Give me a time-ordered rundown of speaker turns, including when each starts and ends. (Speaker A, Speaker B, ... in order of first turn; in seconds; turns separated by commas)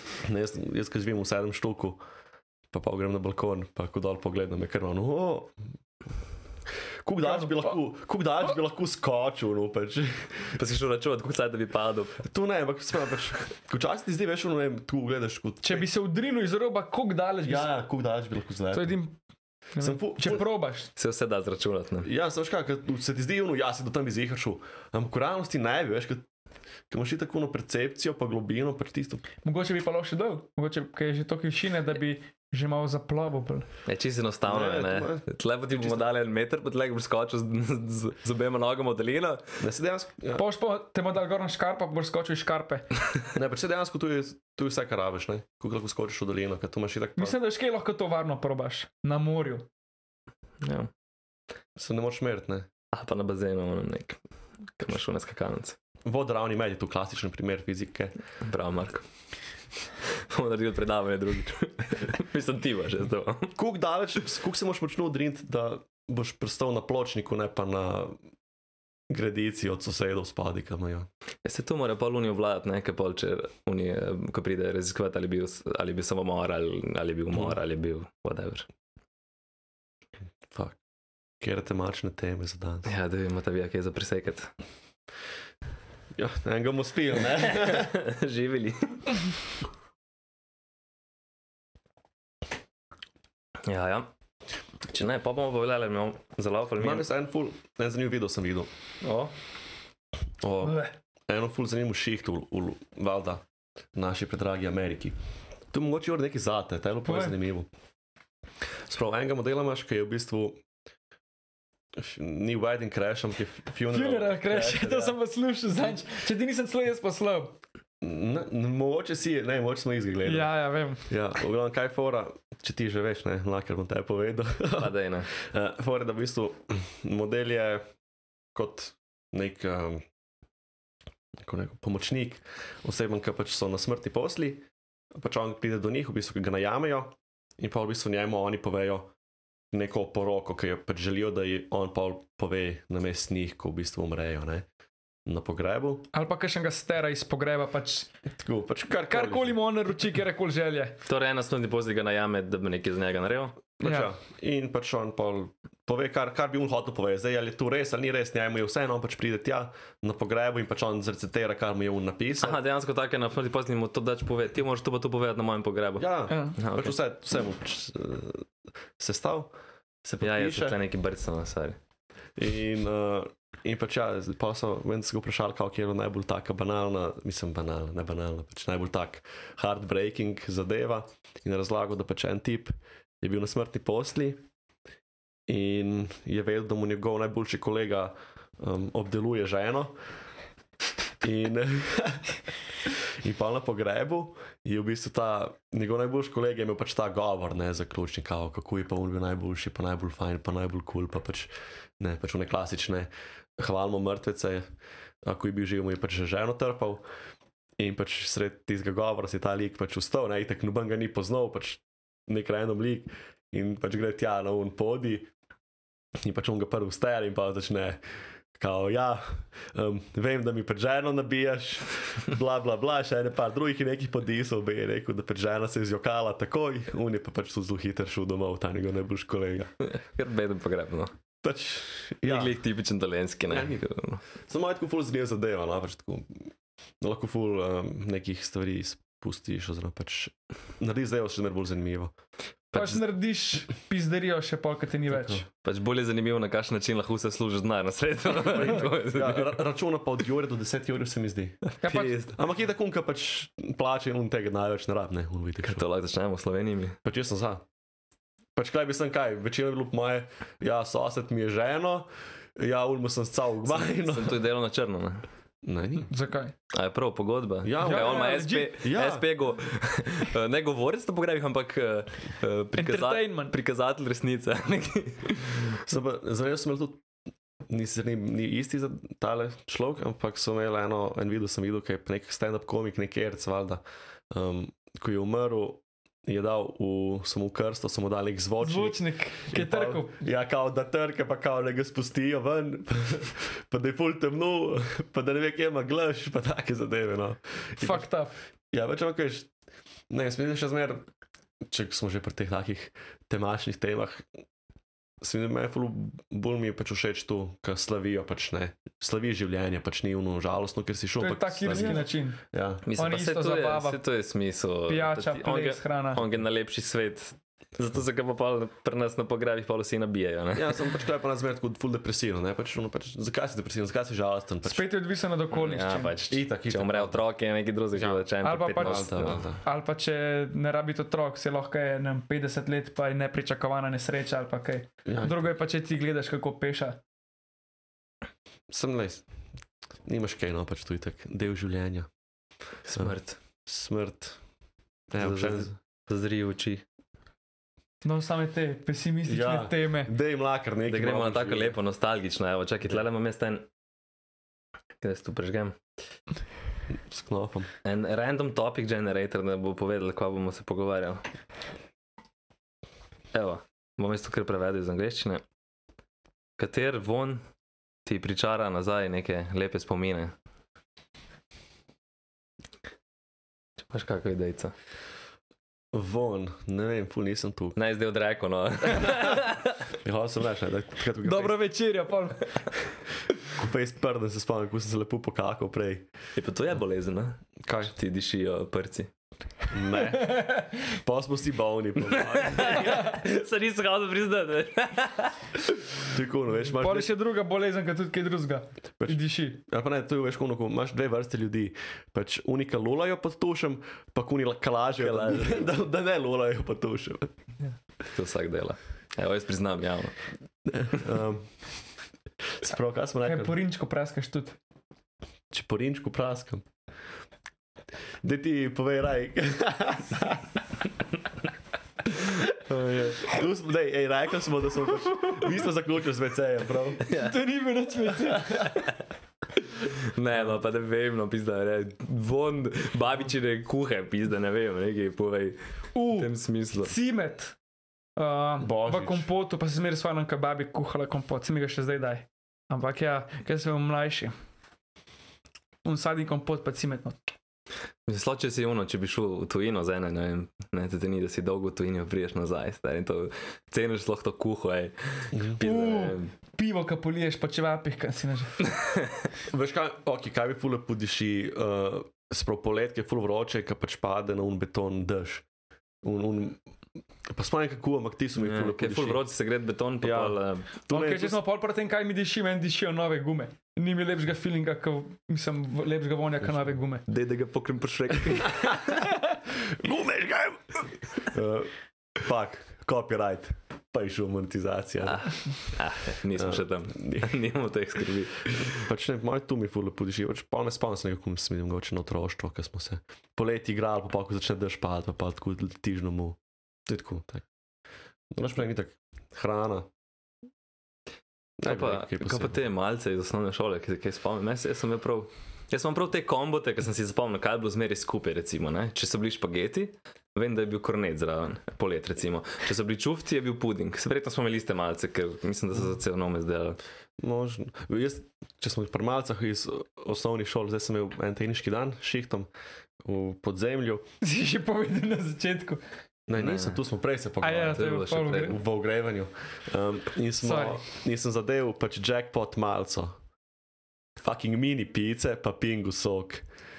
Speaker A: 0.2-2.0, Speaker A: 2.7-5.5, Speaker A: 7.0-10.5, Speaker B: 7.2-7.7, Speaker C: 10.6-12.2, Speaker A: 12.2-15.9, Speaker B: 15.6-17.7, Speaker A: 17.4-19.0, Speaker B: 18.7-19.2, Speaker B: 19.7-20.9, Speaker A: 19.8-20.4, Speaker C: 21.0-22.1, Speaker A: 22.0-26.3, Speaker A: 26.9-29.3, Speaker B: 29.4-33.7, Speaker C: 33.9-39.4, Speaker A: 34.5-35.2, Speaker A: 39.6-40.4, Speaker B: 40.4-42.9, Speaker A: 43.4-47.4, Speaker B: 47.2-49.7, Speaker C: 50.6-50.9, Speaker A: 51.8-52.7, Speaker C: 52.9-54.2, Speaker C: 54.8-55.8, Speaker A: 56.0-58.1, Speaker C: 58.4-59.0, Speaker C: 60.1-63.5, Speaker A: 63.6-68.2, Speaker A: 69.1-71.1, Speaker C: 71.5-78.7, Speaker A: 80.5-80.8, Speaker A: 81.4-82.9, Speaker C: 82.9-84.5, Speaker A: 86.2-87.9, Speaker C: 87.5-89.3, Speaker C: 93.7-94.1, Speaker C: 94.9-97.1, Speaker A: 96.8-98.7, Speaker C: 99.0-99.3, Speaker A: 100.4-103.4, Speaker B: 100.6-100.9, Speaker A: 104.0-105.2, Speaker A: 105.7-107.7, Speaker B: 107.1-107.4, Speaker A: 108.9-110.6, Speaker A: 112.0-115.1, Speaker B: 113.9-117.6, Speaker A: 118.0-120.5, Speaker B: 120.2-121.1, Speaker A: 121.1-127.8, Speaker C: 124.8-125.3, Speaker A: 128.6-130.1, Speaker A: 131.4-139.1, Speaker A: 139.7-144.7, Speaker A: 145.3-146.1, Speaker B: 146.1-148.1, Speaker A: 148.4-149.6, Speaker B: 149.1-151.0, Speaker C: 151.1-153.6, Speaker A: 153.8-162.6, Speaker B: 153.8-154.1, Speaker C: 162.4-166.9, Speaker A: 166.0-169.5, Speaker B: 166.3-166.6, Speaker A: 170.0-170.8, Speaker C: 170.2-171.8, Speaker A: 172.4-184.4, Speaker A: 185.5-190.0, Speaker A: 191.2-204.7, Speaker A: 205.2-207.0, Speaker A: 207.8-215.3, Speaker A: 216.2-218.0, Speaker A: 218.6-229.7, Speaker C: 229.8-231.1, Speaker A: 231.4-232.6, Speaker C: 232.2-234.2, Speaker A: 233.5-233.8, Speaker A: 234.5-236.5, Speaker A: 237.0-242.1, Speaker B: 242.7-245.4, Speaker A: 245.1-245.4, Speaker C: 245.6-249.6, Speaker A: 248.4-251.6, Speaker B: 251.8-252.2, Speaker C: 251.8-252.3, Speaker A: 252.3-255.8, Speaker C: 255.6-257.0, Speaker A: 257.0-257.6, Speaker A: 258.6-264.4, Speaker C: 263.7-265.2, Speaker A: 265.6-266.1, Speaker B: 266.1-266.5, Speaker C: 266.7-275.8, Speaker A: 267.6-269.2, Speaker B: 267.8-268.7, Speaker B: 272.8-273.6, Speaker A: 275.9-277.0, Speaker A: 277.7-298.1, Speaker B: 288.6-290.1, Speaker B: 297.8-298.4, Speaker A: 298.7-299.5, Speaker A: 300.1-301.1, Speaker A: 301.7-304.3, Speaker A: 305.2-312.9, Speaker B: 311.2-312.4, Speaker C: 311.7-312.0, Speaker C: 312.9-320.8, Speaker B: 312.9-314.0, Speaker B: 314.9-316.2, Speaker A: 320.5-324.9, Speaker B: 324.6-326.1, Speaker C: 325.5-329.4, Speaker A: 326.3-327.2, Speaker A: 327.9-328.2, Speaker B: 328.4-337.0, Speaker A: 328.8-329.6, Speaker A: 335.1-335.5, Speaker A: 338.7-339.2, Speaker A: 340.1-342.1, Speaker C: 342.9-343.4, Speaker A: 343.7-344.4, Speaker A: 345.1-345.7, Speaker C: 345.2-346.8, Speaker B: 348.0-350.1, Speaker A: 349.2-351.8, Speaker C: 350.9-353.7, Speaker C: 355.0-355.8, Speaker A: 356.9-357.7, Speaker C: 357.9-361.2, Speaker C: 363.3-365.4, Speaker C: 366.6-367.4, Speaker C: 368.1-370.3, Speaker C: 373.9-374.7, Speaker A: 375.9-377.8, Speaker C: 377.8-379.8, Speaker A: 380.0-381.6, Speaker B: 381.2-382.5, Speaker A: 383.5-386.1, Speaker C: 386.4-389.1, Speaker A: 387.6-387.9, Speaker A: 389.7-393.1, Speaker B: 390.1-390.8, Speaker C: 392.1-395.4, Speaker A: 396.0-397.1, Speaker B: 396.7-399.6, Speaker A: 399.0-407.3, Speaker C: 405.0-405.6, Speaker C: 408.1-410.1, Speaker A: 410.7-411.5, Speaker A: 412.6-413.6, Speaker B: 413.2-414.6, Speaker A: 415.5-416.7, Speaker A: 418.2-420.5, Speaker C: 422.7-423.2, Speaker A: 422.7-427.0, Speaker C: 427.1-427.4, Speaker B: 427.1-428.8, Speaker C: 429.8-435.6, Speaker B: 435.9-437.6, Speaker C: 436.1-436.9, Speaker B: 438.2-444.3, Speaker A: 438.6-439.3, Speaker B: 445.9-447.2, Speaker C: 448.1-456.3, Speaker A: 455.3-455.6, Speaker B: 455.6-458.6, Speaker C: 458.7-459.1, Speaker A: 459.5-465.4, Speaker A: 466.0-466.6, Speaker A: 467.3-469.2, Speaker C: 468.4-470.7, Speaker A: 470.0-471.4, Speaker B: 470.9-477.0, Speaker C: 477.1-479.1, Speaker A: 478.5-478.8, Speaker A: 479.5-485.2, Speaker C: 485.1-488.9, Speaker A: 486.4-487.3, Speaker A: 488.7-497.5, Speaker A: 498.3-499.9, Speaker A: 501.6-502.6, Speaker C: 501.6-516.8, Speaker A: 517.2-522.5, Speaker A: 523.0-524.0, Speaker B: 524.2-525.8, Speaker A: 526.3-533.2, Speaker C: 526.4-526.8, Speaker B: 527.4-528.6, Speaker C: 527.8-528.5, Speaker B: 530.4-530.8, Speaker A: 534.2-536.5